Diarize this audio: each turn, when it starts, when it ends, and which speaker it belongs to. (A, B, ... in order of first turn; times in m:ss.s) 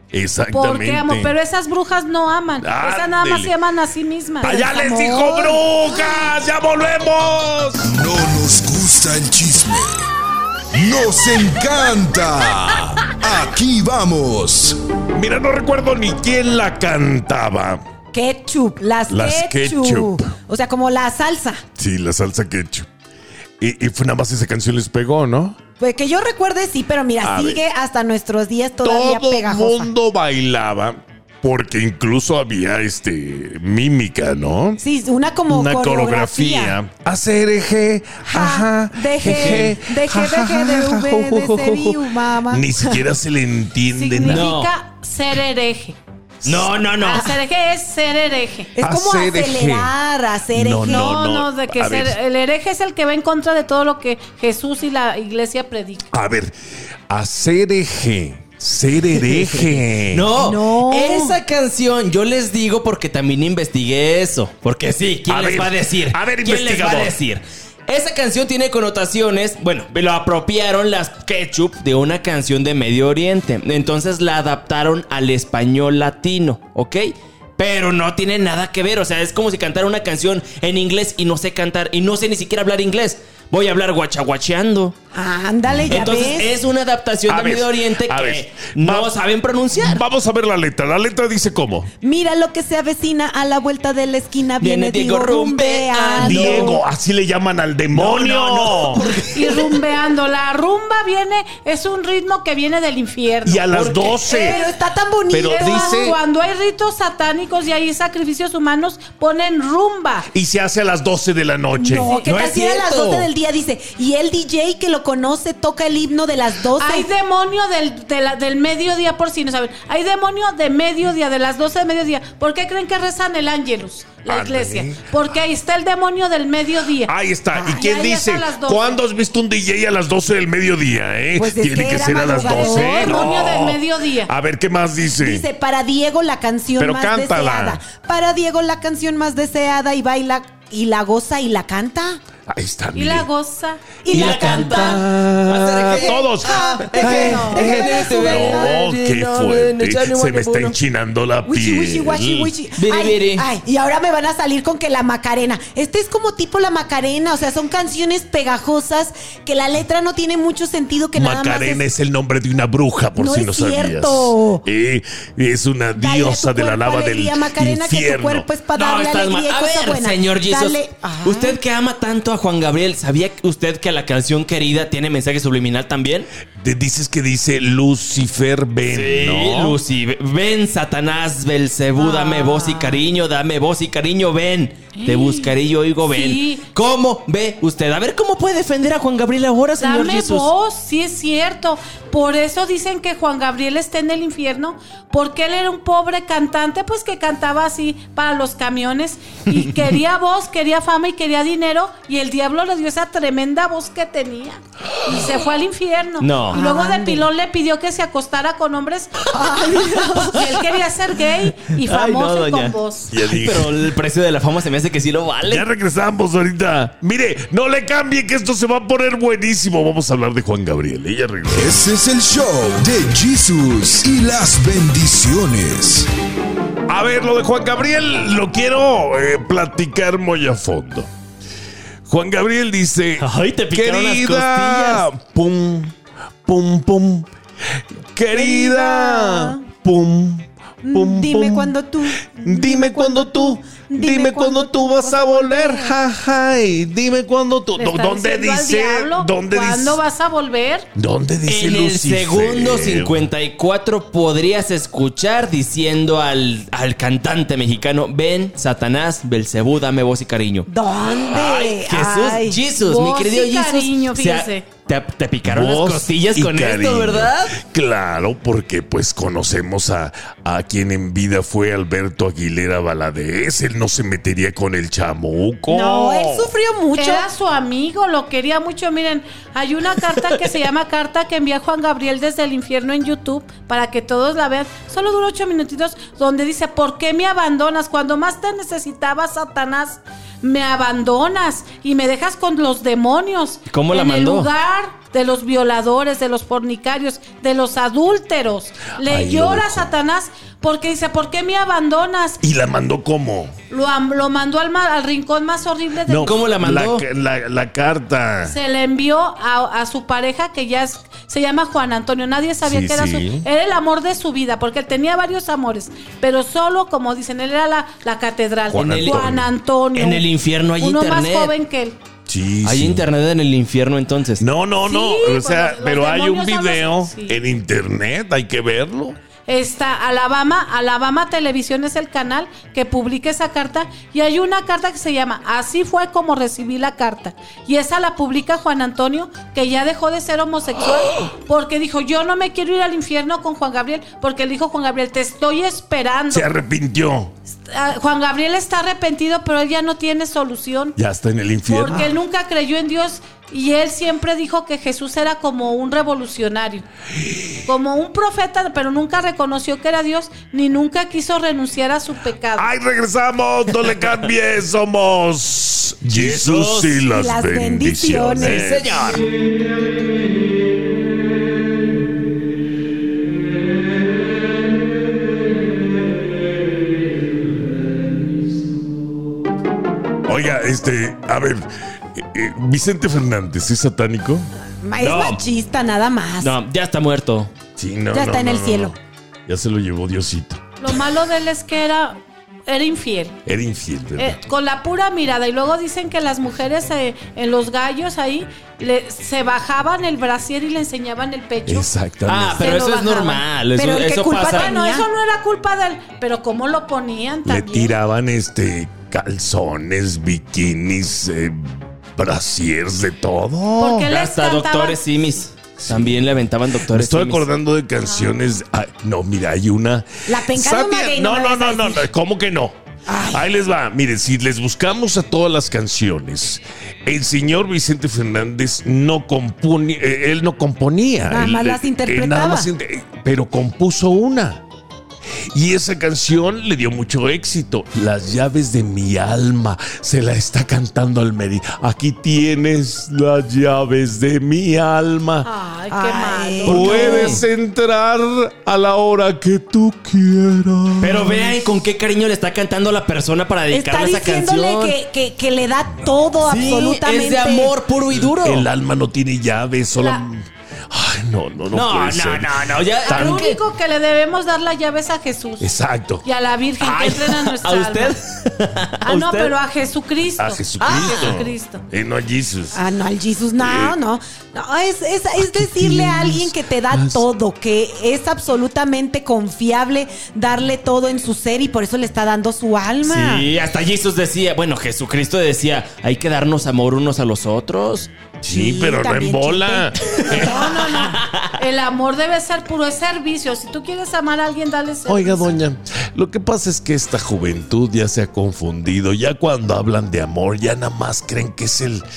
0:00.1-0:01.3 A
0:00.5-0:04.7 B
0:02.6-0:03.5 A
0:04.4-0:08.0 A
0:04.5-0:06.2 C
0:07.9-0:10.1 D
0:10.8-0:12.6 D
0:11.3-0:11.7 A
0:12.6-0:13.2 A
0:13.1-0:14.8 D
0:15.1-0:17.8 A
0:18.1-0:21.6 C
0:19.1-0:20.2 A
0:21.8-0:22.9 A
0:23.6-0:25.6 A
0:25.8-0:29.9 C
0:27.2-0:27.6 A
0:28.8-0:34.8 A
0:34.8-0:36.8 C
0:35.5-0:44.5 A
0:38.3-0:43.1 C
0:39.2-0:39.7 E
0:43.9-0:46.0 B
0:44.2-0:44.7 E
0:46.4-0:46.7 A
0:46.4-0:47.3 E
0:47.0-0:47.4 C
0:47.0-0:48.7 B
0:48.8-0:51.2 C
0:48.8-0:49.9 A
0:50.5-0:52.2 A
0:50.8-0:56.1 B
0:56.1-0:56.5 A
0:57.1-1:00.3 A
0:59.2-1:24.9 E
1:00.4-1:01.4 C
1:05.3-1:07.2 A
1:25.1-1:26.5 C
1:25.9-1:30.0 E
1:27.3-1:29.1 A
1:29.7-1:31.9 A
1:32.0-1:36.8 C
1:34.6-1:36.8 E
1:36.2-1:39.0 A
1:37.9-1:39.6 E
1:39.3-1:43.7 B
1:43.4-1:44.6 A
1:43.7-1:44.3 E
1:44.3-1:46.1 C
1:44.3-1:44.6 B
1:45.3-1:46.2 A
1:45.5-1:50.3 B
1:50.3-1:52.1 A
1:51.8-1:57.1 C
1:52.1-1:53.3 E
1:56.8-2:07.1 B
2:04.3-2:05.1 A
2:07.1-2:15.4 A
2:07.6-2:07.9 C
2:07.7-2:09.0 B
2:11.4-2:13.3 C
2:12.4-2:14.3 B
2:15.2-2:22.2 C
2:16.8-2:17.8 A
2:22.5-2:23.3 A
2:22.9-2:23.8 B
2:24.0-2:25.0 C
2:24.1-2:32.5 A
2:24.1-2:30.8 E
2:26.0-2:28.8 C
2:26.9-2:27.8 B
2:31.4-2:41.8 C
2:32.7-2:33.5 E
2:41.2-2:48.5 A
2:43.2-2:44.6 C
2:46.0-2:51.6 C
2:48.7-2:56.3 E
2:56.6-2:59.8 A
2:58.9-3:10.5 E
3:02.0-3:03.0 C
3:02.4-3:02.7 B
3:04.9-3:06.7 B
3:09.8-3:29.3 B
3:26.2-3:26.6 E
3:26.5-3:27.2 C
3:29.3-3:30.5 C
3:29.8-3:30.6 E
3:30.2-3:33.1 B
3:31.8-3:35.7 E
3:33.1-3:33.8 A
3:35.4-3:41.8 A
3:41.5-3:46.1 D
3:46.9-3:51.1 A
3:52.1-3:55.9 A
3:53.2-3:55.0 E
3:56.5-3:57.3 A
3:58.2-4:01.7 A
3:58.3-3:59.6 C
4:00.8-4:06.0 C
4:02.4-4:10.0 A
4:07.8-4:10.9 B
4:11.0-4:13.3 A
4:11.4-4:20.7 E
4:20.7-4:22.6 C
4:21.2-4:27.6 E
4:22.8-4:24.7 B
4:25.4-4:36.5 A
4:35.7-4:37.3 C
4:37.0-5:02.4 B
4:53.7-4:54.5 E
4:59.0-4:59.9 A
5:02.4-5:03.5 A
5:03.7-5:06.4 B
5:06.1-5:08.6 A
5:06.2-5:07.0 E
5:08.4-5:22.0 B
5:12.6-5:13.4 A
5:18.7-5:19.5 A
5:18.7-5:19.3 E
5:19.9-5:21.5 E
5:22.3-5:23.0 A
5:22.6-5:24.4 E
5:24.4-5:29.2 A
5:24.8-5:27.4 B
5:29.5-5:46.5 B
5:46.3-5:47.3 A
5:47.6-5:51.0 B
5:51.0-5:52.1 A
5:51.7-5:56.8 B
5:57.2-5:57.6 A
5:57.7-6:02.7 B
6:02.6-6:09.2 A
6:06.1-6:07.0 E
6:07.1-6:08.6 C
6:08.4-6:09.2 E
6:20.3-6:24.5 A
6:24.8-6:26.6 C
6:25.0-6:25.4 E
6:26.4-6:27.5 E
6:27.8-6:29.0 A
6:28.1-6:29.0 C
6:29.5-6:30.6 A
6:30.8-6:33.4 B
6:33.5-6:34.4 A
6:34.2-6:41.9 B
6:41.7-6:42.8 A
6:42.3-6:44.7 E
6:42.6-6:43.4 B
6:43.8-6:45.1 C
6:44.5-6:48.0 B
6:47.5-6:51.6 A
6:52.2-6:54.1 A
6:53.8-6:55.0 B
6:54.1-6:57.5 E
6:55.8-6:56.2 A
6:56.8-7:02.7 A
7:00.3-7:02.1 C
7:03.1-7:03.5 C
7:03.3-7:14.6 A
7:11.2-7:12.7 C
7:15.5-7:25.5 A
7:25.4-7:27.4 B
7:25.9-7:27.4 C
7:26.6-7:31.6 A
7:31.0-7:35.0 E
7:33.7-7:37.8 C
7:36.4-7:38.7 E
7:38.1-7:40.4 A
7:40.0-7:40.2 B
7:40.9-7:43.4 A
7:41.7-7:43.6 E
7:43.0-7:45.7 B
7:45.6-7:46.2 A
7:46.2-7:48.2 B
7:46.8-7:49.6 E
7:49.0-7:51.8 B
7:50.4-7:52.8 A
7:50.8-7:51.4 E
7:52.7-8:03.5 C
7:53.6-7:54.0 A
7:55.4-7:57.3 A
8:03.0-8:08.1 E
8:08.4-8:10.9 A
8:08.5-8:11.2 C
8:10.5-8:11.4 E
8:11.6-8:15.5 B
8:15.1-8:22.0 A